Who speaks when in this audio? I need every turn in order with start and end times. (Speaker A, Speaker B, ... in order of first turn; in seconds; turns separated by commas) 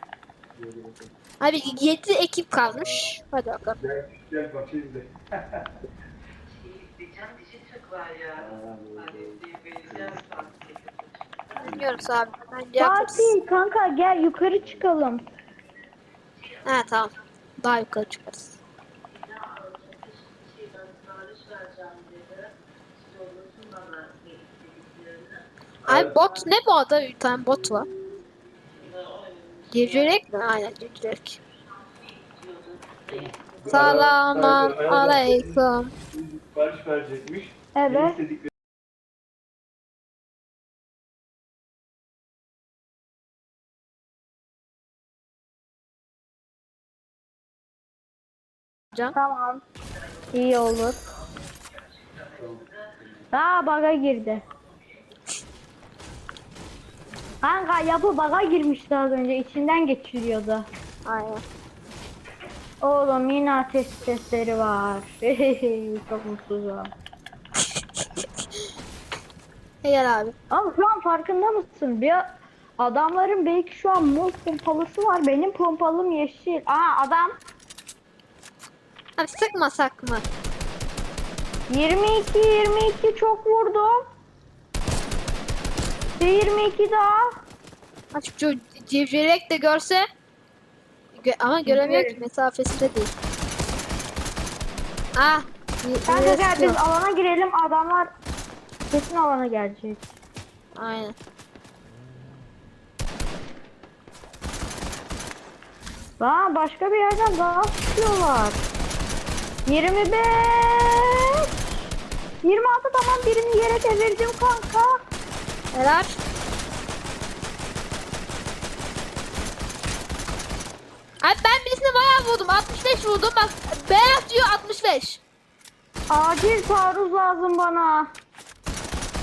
Speaker A: 0.5-1.1, Speaker B: 1.4-3.8, Speaker A: 2.6-3.1, Speaker A: 3.8-5.7, Speaker A: 8.3-10.7, Speaker A: 11.6-12.0, Speaker B: 11.6-13.3, Speaker C: 12.8-15.2, Speaker B: 16.6-18.6, Speaker A: 25.9-26.2, Speaker B: 25.9-27.9, Speaker B: 29.7-31.4, Speaker A: 33.1-38.5, Speaker B: 33.7-35.9, Speaker C: 37.8-38.2, Speaker C: 49.1-49.6, Speaker C: 50.3-51.0, Speaker A: 52.4-53.2, Speaker C: 53.3-54.4, Speaker C: 57.4-60.7, Speaker B: 61.0-61.4, Speaker C: 62.8-66.9, Speaker B: 67.7-68.5, Speaker B: 69.8-70.3, Speaker C: 70.5-72.2, Speaker C: 72.8-77.3, Speaker B: 79.2-80.2, Speaker C: 81.7-83.9, Speaker C: 86.2-87.3, Speaker B: 88.1-90.0, Speaker B: 91.1-93.1, Speaker C: 91.7-92.2, Speaker B: 95.2-96.8, Speaker C: 96.1-98.1, Speaker C: 98.9-100.1, Speaker B: 100.8-101.2, Speaker C: 106.2-108.6, Speaker C: 109.7-111.1, Speaker C: 112.4-115.0, Speaker B: 115.7-116.2, Speaker B: 121.2-125.2, Speaker C: 126.1-128.1